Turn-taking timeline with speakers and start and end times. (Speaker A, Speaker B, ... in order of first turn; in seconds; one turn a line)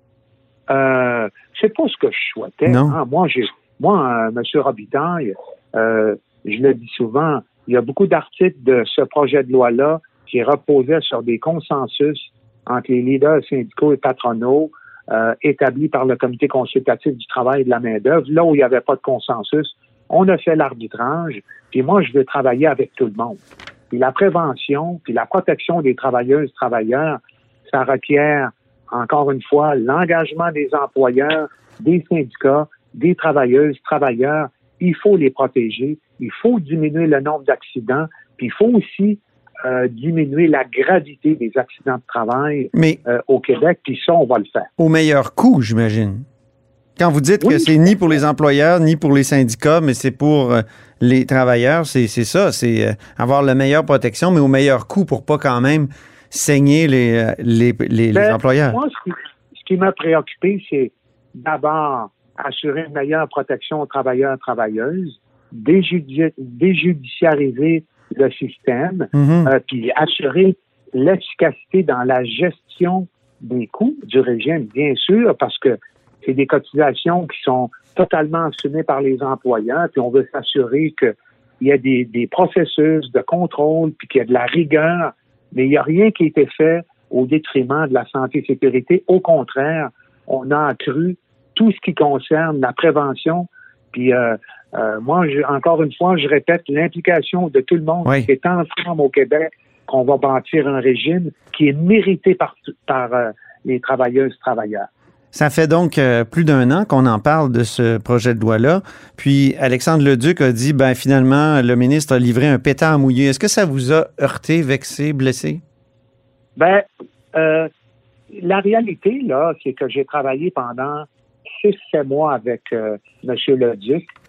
Speaker A: 0.7-27.2
Speaker B: 2.7-3.0
Speaker A: 27.7-44.7
Speaker B: 42.7-43.0
Speaker B: 44.8-46.2
Speaker B: 47.0-58.8
Speaker A: 47.4-47.8
Speaker A: 58.1-104.9
Speaker B: 69.2-69.5
Speaker B: 105.3-115.6
Speaker A: 116.6-117.7
Speaker A: 118.3-121.1
Speaker A: 121.6-124.0